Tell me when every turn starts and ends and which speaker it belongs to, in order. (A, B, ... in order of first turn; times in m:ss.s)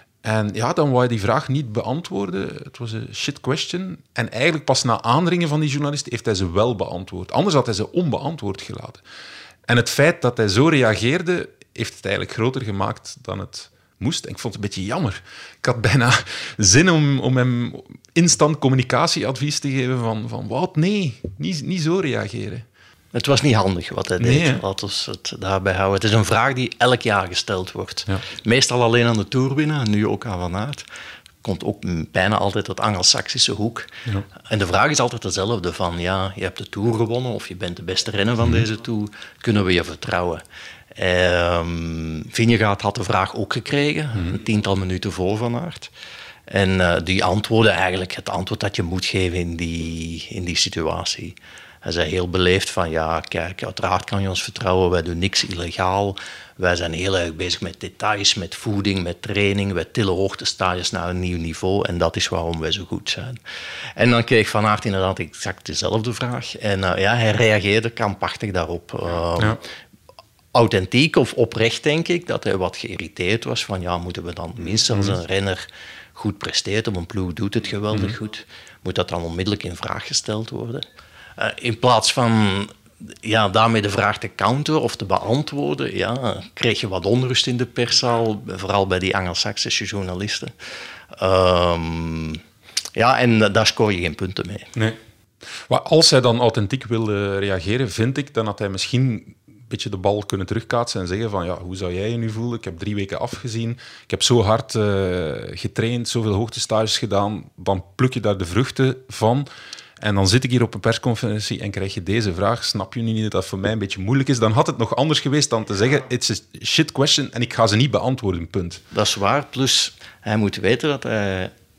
0:00.2-0:09.0 A
0:09.7-0:22.6 A
0:23.1-0:30.9 B
0:24.2-0:24.6 A
0:31.4-0:33.9 B
0:34.5-0:40.4 B
0:41.0-0:45.9 B
0:46.5-1:03.4 B
1:04.0-1:09.6 B
1:10.5-1:20.8 B
1:14.9-1:15.2 A
1:21.4-1:30.5 B
1:31.1-1:32.4 B
1:33.0-1:34.7 B
1:35.7-1:49.5 A
1:50.0-1:58.8 A
1:58.9-2:01.5 B